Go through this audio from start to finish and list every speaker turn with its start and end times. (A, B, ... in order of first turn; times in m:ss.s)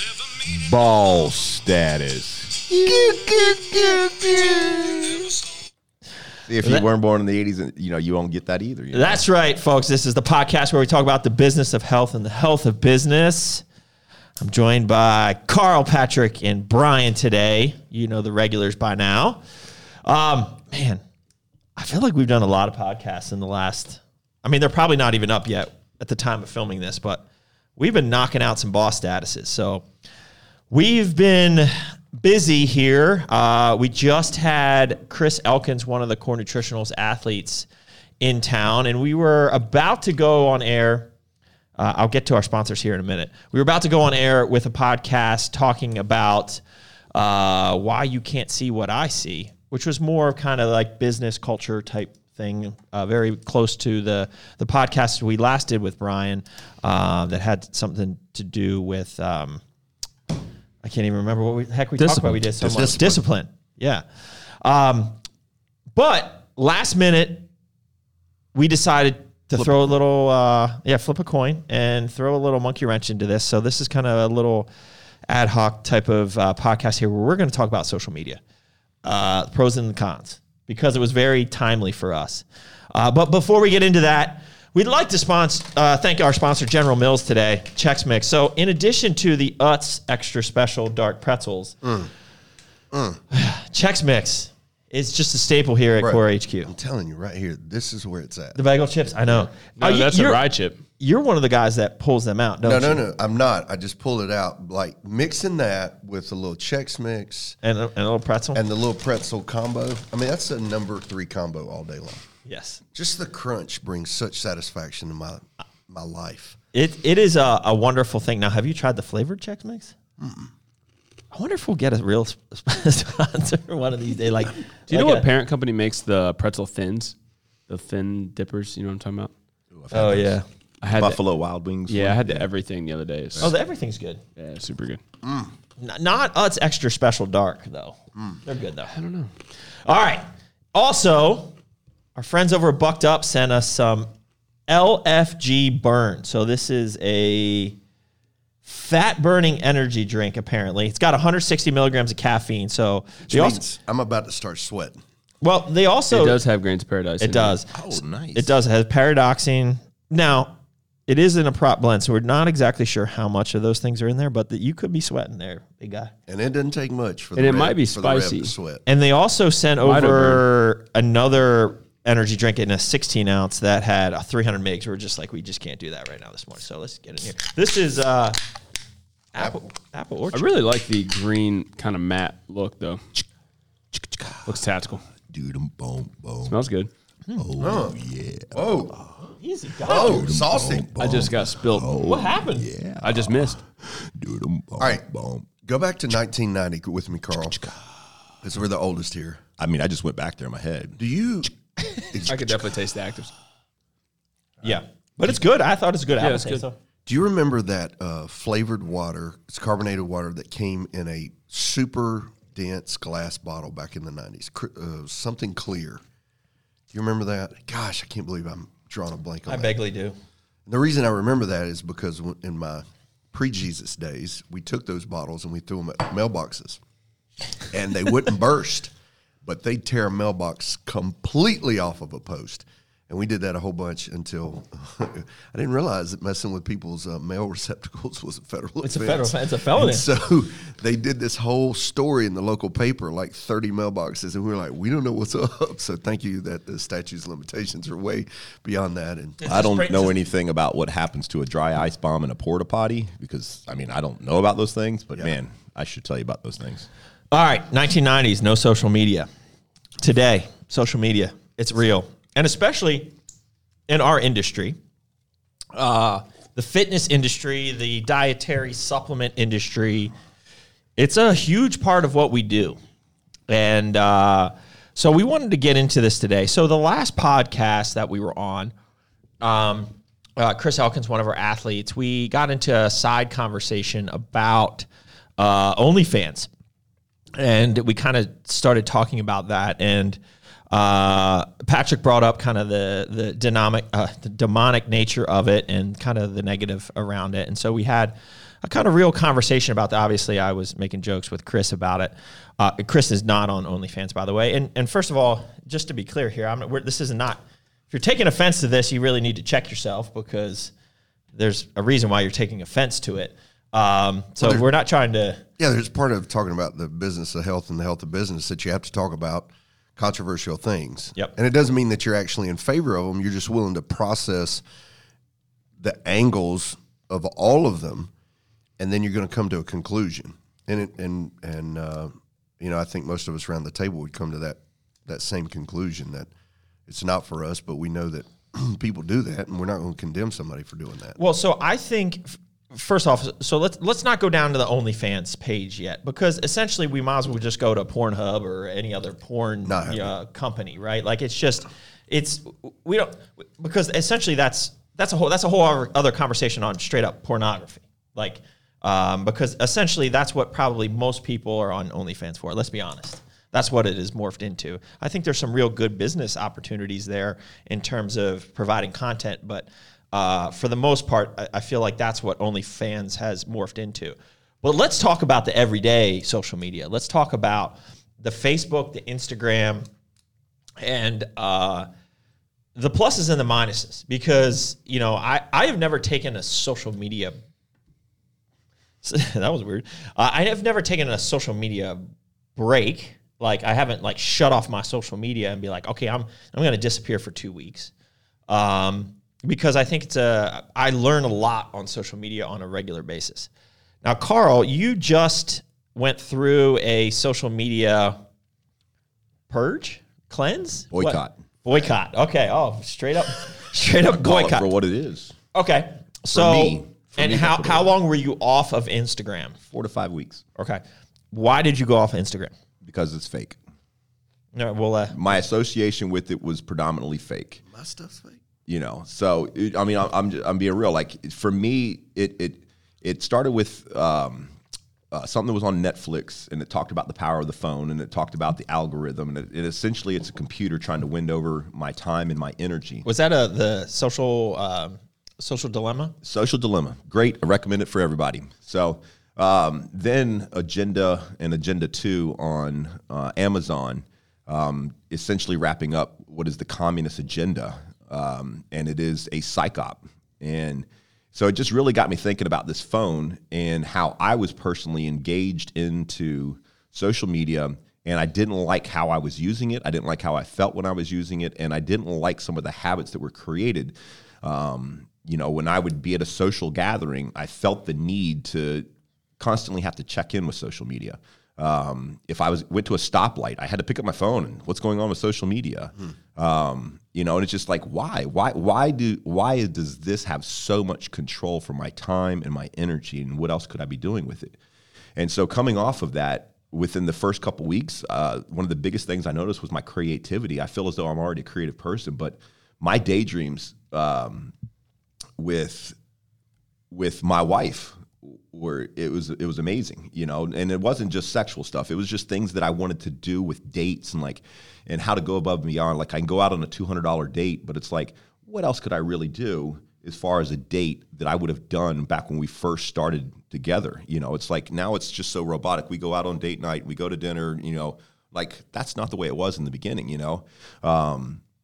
0:00.4-0:05.4 A
0:06.4-0:09.2 A
0:08.9-0:13.6 B
0:14.4-0:19.4 B
0:20.0-0:21.0 B
0:21.8-0:27.2 B
0:27.8-0:29.8 B
0:30.7-0:37.7 B
0:38.2-0:41.1 B
0:41.8-0:46.6 B
0:47.1-0:59.6 B
1:00.8-1:04.0 B
1:02.0-1:02.4 C
1:02.6-1:03.2 D
1:04.6-1:05.2 B
1:05.9-1:07.5 B
1:08.5-1:14.7 B
1:15.3-1:18.4 B
1:19.0-1:31.8 B
1:31.8-1:32.1 D
1:32.9-1:33.2 D
1:33.3-1:36.7 B
1:36.0-1:38.6 D
1:38.5-1:40.4 B
1:39.8-1:40.8 C
1:41.0-1:43.0 B
1:42.6-1:47.6 D
1:47.6-1:48.6 B
1:48.5-1:52.3 D
1:52.4-1:52.8 B
1:52.9-1:56.6 D
1:56.7-1:59.9 B
2:00.2-2:00.5 D
2:01.3-2:05.2 B
2:04.9-2:07.1 C
2:07.7-2:09.3 C
2:09.8-2:12.5 A
2:09.9-2:10.4 B
2:10.8-2:11.2 C
2:11.9-2:13.5 C
2:13.4-2:14.2 B
2:14.4-2:15.0 C
2:15.2-2:15.5 D
2:15.8-2:18.9 B
2:18.9-2:19.3 C
2:19.7-2:21.6 B
2:22.2-2:24.1 B
2:24.7-2:27.8 B
2:28.6-2:33.6 B
2:33.3-2:35.0 D
2:35.4-2:36.4 B
2:36.1-2:37.6 C
2:37.2-2:46.1 B
2:37.7-2:38.5 A
2:46.3-2:48.8 D
2:47.4-2:48.5 C
2:48.8-2:58.4 B
2:49.8-2:50.4 C
2:59.3-3:00.5 B
3:00.3-3:03.0 C
3:03.9-3:04.5 A
3:04.4-3:05.0 C
3:05.3-3:06.6 A
3:06.4-3:06.9 C
3:07.4-3:09.2 A
3:07.6-3:07.9 D
3:08.5-3:09.0 D
3:09.3-3:10.3 B
3:09.8-3:10.9 D
3:09.9-3:15.4 A
3:11.0-3:11.9 C
3:12.0-3:12.7 B
3:13.0-3:13.6 C
3:14.8-3:15.0 D
3:15.6-3:17.6 D
3:18.4-3:19.4 D
3:19.6-3:21.0 A
3:21.0-3:22.4 D
3:22.2-3:23.3 C
3:24.6-3:26.8 B
3:26.2-3:26.6 C
3:27.0-3:36.0 D
3:36.9-3:39.7 D
3:39.5-3:40.2 B
3:40.6-3:46.8 D
3:47.7-3:48.9 D
3:49.4-4:09.4 D
3:58.8-4:00.0 B
4:09.4-4:10.1 B
4:09.4-4:16.9 A
4:17.3-4:19.3 B
4:20.0-4:23.1 B
4:23.9-4:24.8 B
4:25.7-4:30.1 B
4:31.0-4:32.8 B
4:33.5-4:38.7 B
4:39.4-4:44.9 B
4:45.4-4:46.5 B
4:47.4-4:50.2 B
4:50.7-5:10.7 B
5:11.3-5:15.4 B
5:14.4-5:14.6 D
5:15.6-5:24.6 D
5:25.8-5:28.1 D
5:28.8-5:36.3 D
5:36.9-5:41.2 D
5:41.2-6:19.8 B
5:49.6-5:50.1 D
6:20.8-6:21.9 B
6:22.8-6:27.4 B
6:29.0-6:37.9 B
6:38.5-6:43.5 B
6:44.0-6:48.2 B
6:49.5-6:54.7 B
6:50.9-6:51.3 A
6:54.1-6:55.3 A
6:55.5-6:59.6 B
6:56.3-6:57.9 A
6:59.7-7:00.4 A
7:00.6-7:02.5 B
7:02.8-7:03.6 A
7:04.5-7:05.2 B
7:05.1-7:07.6 A
7:07.7-7:08.4 D
7:08.6-7:14.5 A
7:15.1-7:23.0 A
7:23.0-7:26.1 B
7:26.2-7:58.9 A
7:59.4-8:14.6 A
8:15.2-8:24.5 A
8:25.4-8:26.0 A
8:26.9-8:51.4 A